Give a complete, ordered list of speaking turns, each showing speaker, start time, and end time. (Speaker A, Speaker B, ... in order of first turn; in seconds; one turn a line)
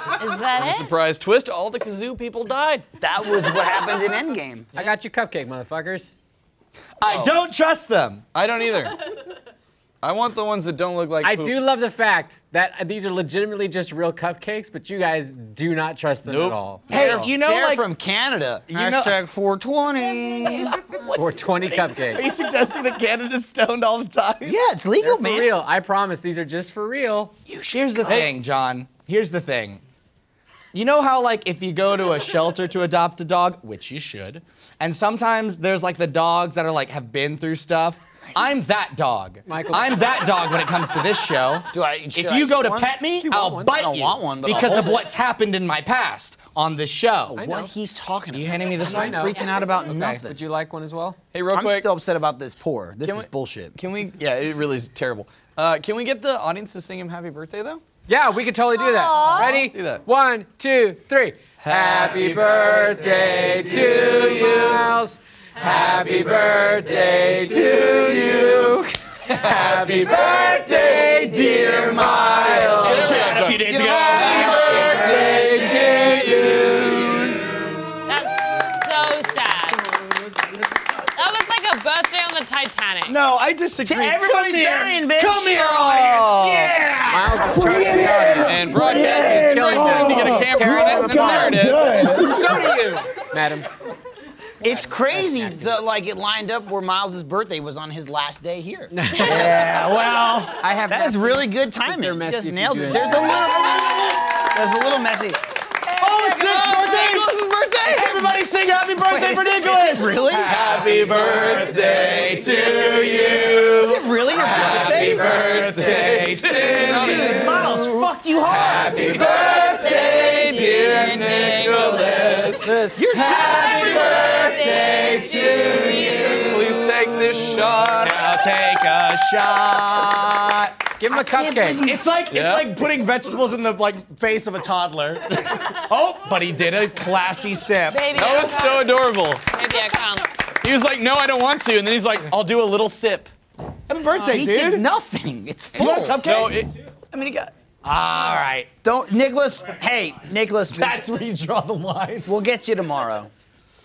Speaker A: 0.2-0.9
Speaker B: 0.6-2.9
Speaker C: 3.0-4.7
Speaker D: 4.7-6.2
Speaker E: 7.0-8.2
Speaker B: 8.3-9.0
Speaker B: 10.0-11.6
Speaker D: 11.2-16.9
Speaker B: 16.2-17.2
Speaker E: 16.9-17.9
Speaker C: 16.9-20.8
Speaker E: 18.7-19.1
Speaker D: 21.1-22.2
Speaker E: 21.7-24.6
Speaker C: 24.4-25.5
Speaker D: 25.0-27.3
Speaker C: 27.5-28.2
Speaker E: 27.5-29.8
Speaker E: 30.7-47.4
Speaker D: 39.5-40.1
Speaker C: 41.7-43.0
Speaker D: 43.2-43.8
Speaker C: 43.5-45.1
Speaker C: 47.3-50.4
Speaker D: 47.3-47.7
Speaker E: 48.3-49.3
Speaker D: 48.8-51.2
Speaker E: 49.9-50.2
Speaker B: 51.3-51.9
Speaker C: 51.5-53.7
Speaker B: 53.0-57.8
Speaker D: 58.1-73.2
Speaker A: 58.8-59.6
Speaker B: 59.5-60.0
Speaker B: 61.6-62.6
Speaker B: 69.4-70.0
Speaker C: 70.1-77.4
Speaker E: 72.8-75.0
Speaker B: 72.8-75.2
Speaker D: 74.2-76.8
Speaker A: 78.1-79.8
Speaker A: 81.1-83.2
Speaker E: 83.0-93.0
Speaker C: 83.8-86.7
Speaker D: 87.1-91.6
Speaker B: 88.4-92.7
Speaker D: 92.4-93.7
Speaker C: 94.6-99.8
Speaker D: 94.6-95.8
Speaker D: 98.9-99.7
Speaker E: 99.2-100.6
Speaker D: 100.6-103.5
Speaker C: 100.9-105.4
Speaker E: 105.9-118.0
Speaker B: 106.0-108.3
Speaker C: 106.3-106.8
Speaker C: 109.0-110.6
Speaker B: 110.5-112.4
Speaker B: 113.0-113.5
Speaker C: 113.8-115.4
Speaker B: 114.5-117.6
Speaker C: 116.9-119.1
Speaker B: 118.5-122.7
Speaker A: 119.6-122.4
Speaker D: 122.4-126.3
Speaker C: 123.0-124.6
Speaker E: 123.2-123.8
Speaker A: 123.4-126.6
Speaker B: 126.3-128.2
Speaker E: 127.9-130.8
Speaker D: 131.0-131.9
Speaker C: 131.1-132.0
Speaker E: 131.7-138.2
Speaker B: 132.3-132.7
Speaker A: 137.9-140.3
Speaker B: 138.1-139.4
Speaker B: 140.6-143.3
Speaker E: 143.9-144.8
Speaker C: 144.2-146.3
Speaker E: 145.7-146.7
Speaker B: 146.2-147.5
Speaker E: 147.8-148.7
Speaker C: 148.8-151.0
Speaker E: 150.7-152.3
Speaker C: 152.2-153.3